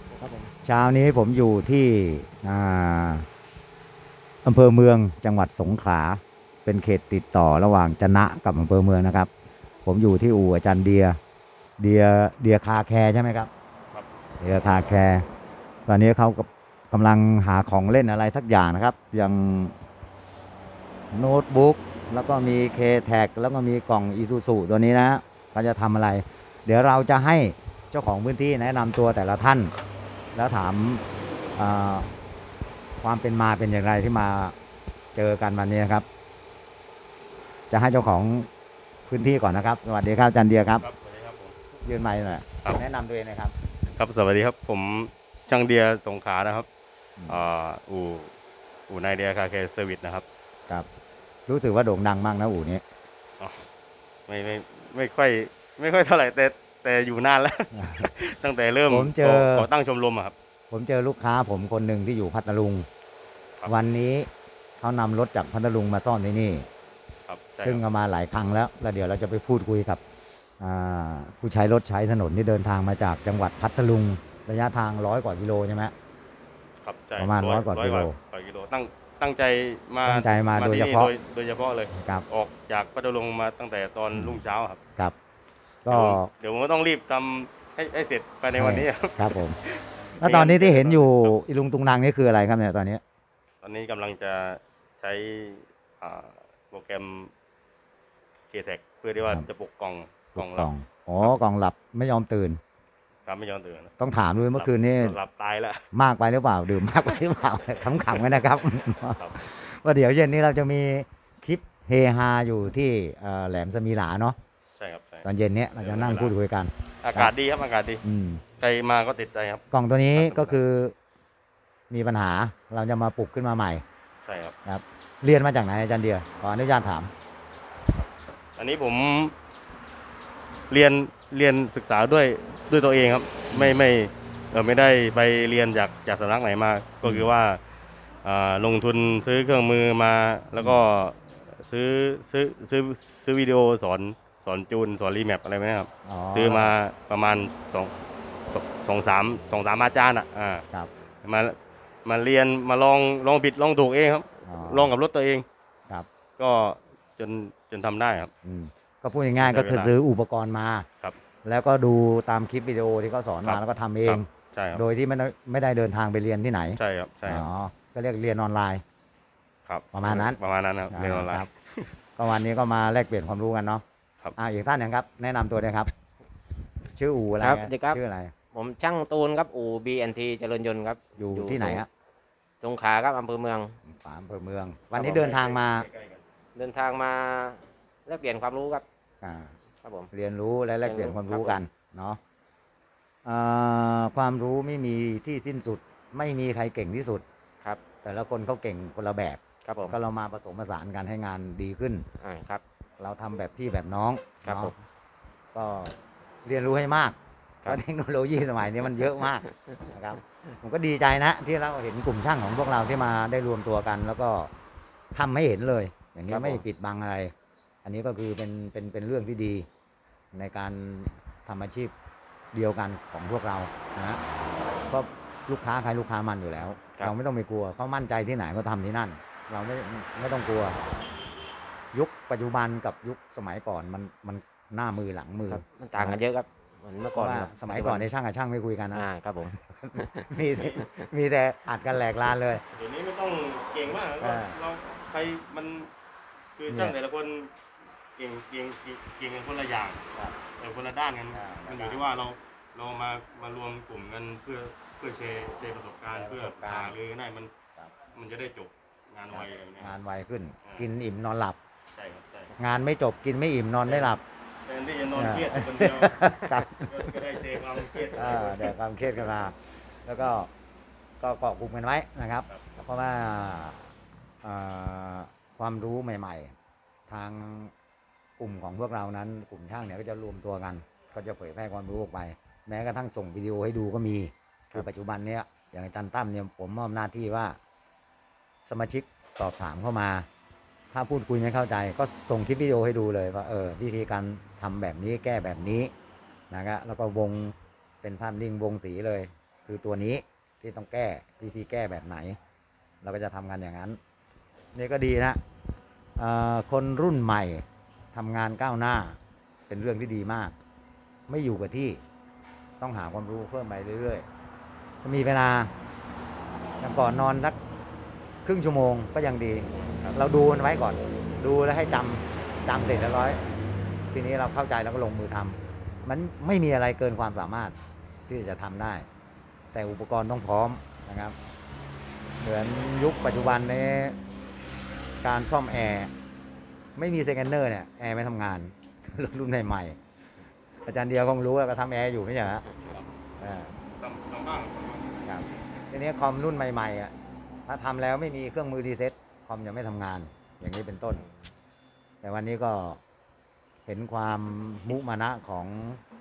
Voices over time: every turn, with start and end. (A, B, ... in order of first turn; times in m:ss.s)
0:00.2-0:00.5 A
0:00.6-0:03.3 B
0:04.4-0:09.3 B
0:09.8-0:11.2 B
0:11.8-0:13.5 B
0:14.4-0:15.2 B
0:15.9-0:19.7 B
0:21.1-0:29.7 B
0:30.3-0:31.0 B
0:31.6-0:32.1 B
0:33.0-0:34.5 B
0:35.1-0:36.0 B
0:37.7-0:38.5 B
0:39.1-0:40.8 B
0:40.8-0:41.6 C
0:41.8-0:43.5 B
0:44.0-0:46.7 C
0:47.2-0:47.4 B
0:47.3-0:48.3 C
0:48.9-0:50.2 C
0:51.5-0:52.8 B
0:54.3-1:00.3 C
0:57.7-0:58.1 B
0:58.9-0:59.7 B
1:00.7-1:02.8 B
1:03.6-1:04.3 B
1:04.8-1:06.6 B
1:07.3-1:07.8 C
1:07.6-1:10.0 B
1:10.6-1:15.9 B
1:16.8-1:24.8 C
1:17.2-1:18.2 B
1:20.0-1:21.1 B
1:21.9-1:22.2 B
1:24.1-1:24.4 B
1:25.8-1:26.3 B
1:25.9-1:31.4 C
1:28.5-1:29.6 B
1:30.2-1:33.0 B
1:33.6-1:37.3 C
1:38.5-1:40.7 C
1:40.3-1:42.6 B
1:43.2-1:43.9 C
1:44.0-1:45.2 B
1:44.5-1:45.8 C
1:45.9-1:54.4 B
1:48.0-1:49.4 C
1:54.8-1:55.2 C
1:55.2-1:57.3 B
1:55.8-1:56.3 C
1:57.0-1:58.0 C
1:58.0-1:58.4 B
1:58.6-1:59.6 C
1:59.7-2:00.9 B
2:00.1-2:00.6 C
2:01.9-2:03.8 B
2:04.2-2:04.5 C
2:04.6-2:07.1 B
2:07.9-2:09.3 C
2:10.7-2:17.6 C
2:13.5-2:13.8 B
2:18.2-2:27.9 C
2:26.0-2:26.8 B
2:28.4-2:30.6 C
2:31.2-2:35.4 C
2:34.4-2:34.9 B
2:36.4-2:38.3 C
2:38.4-2:40.8 B
2:39.4-2:39.9 C
2:41.4-2:48.8 B
2:43.4-2:44.8 C
2:46.8-2:47.4 C
2:49.6-2:51.9 C
2:49.9-2:50.4 B
2:50.9-2:51.5 B
2:52.2-2:53.8 B
2:54.4-2:55.9 B
2:56.9-2:58.3 B
2:57.4-2:58.0 A
2:58.5-3:01.8 A
3:01.2-3:01.9 B
3:02.6-3:03.8 A
3:03.8-3:05.9 B
3:05.0-3:06.2 C
3:06.5-3:08.8 A
3:09.2-3:09.5 B
3:09.8-3:10.1 A
3:10.1-3:12.2 B
3:10.8-3:11.7 A
3:13.2-3:17.2 B
3:18.0-3:22.0 B
3:19.6-3:20.0 A
3:22.2-3:22.6 A
3:23.0-3:24.7 B
3:24.4-3:24.7 A
3:25.5-3:25.9 B
3:26.4-3:34.5 B
3:35.1-3:37.3 B
3:36.3-3:36.6 A
3:37.8-3:39.6 B
3:40.3-3:41.9 B
3:42.5-3:44.2 B
3:44.9-3:50.8 B
3:51.9-3:56.2 B
3:55.5-3:58.1 A
3:57.2-3:59.0 B
3:58.9-4:01.0 A
3:59.7-4:02.6 B
4:02.7-4:05.9 C
4:04.2-4:04.6 B
4:06.6-4:07.5 C
4:06.7-4:06.9 B
4:08.2-4:10.0 C
4:10.6-4:17.5 C
4:11.3-4:12.0 B
4:16.1-4:17.0 B
4:18.1-4:19.9 C
4:19.3-4:21.6 B
4:21.9-4:22.5 C
4:22.6-4:24.2 B
4:23.8-4:29.2 C
4:25.2-4:27.1 B
4:28.0-4:29.5 B
4:30.0-4:30.5 B
4:31.2-4:33.9 B
4:34.4-4:36.5 B
4:37.1-4:37.7 B
4:38.4-4:47.6 B
4:48.6-4:50.2 B
4:50.9-4:55.9 B
4:56.5-5:02.4 B
5:03.0-5:04.0 B
5:04.7-5:05.4 B
5:06.2-5:09.2 B
5:09.7-5:10.5 B
5:11.3-5:12.0 B
5:12.8-5:14.2 B
5:15.0-5:15.7 B
5:16.8-5:17.6 B
5:18.4-5:23.4 B
5:24.1-5:27.7 B
5:28.3-5:29.1 B
5:29.7-5:31.4 B
5:32.4-5:34.2 B
5:35.2-5:36.1 B
5:37.0-5:40.0 B
5:40.8-5:42.6 B
5:43.4-5:43.7 B
5:44.0-5:45.2 C
5:45.2-5:47.1 B
5:47.7-5:51.2 B
5:52.2-5:53.0 B
5:53.9-5:56.0 B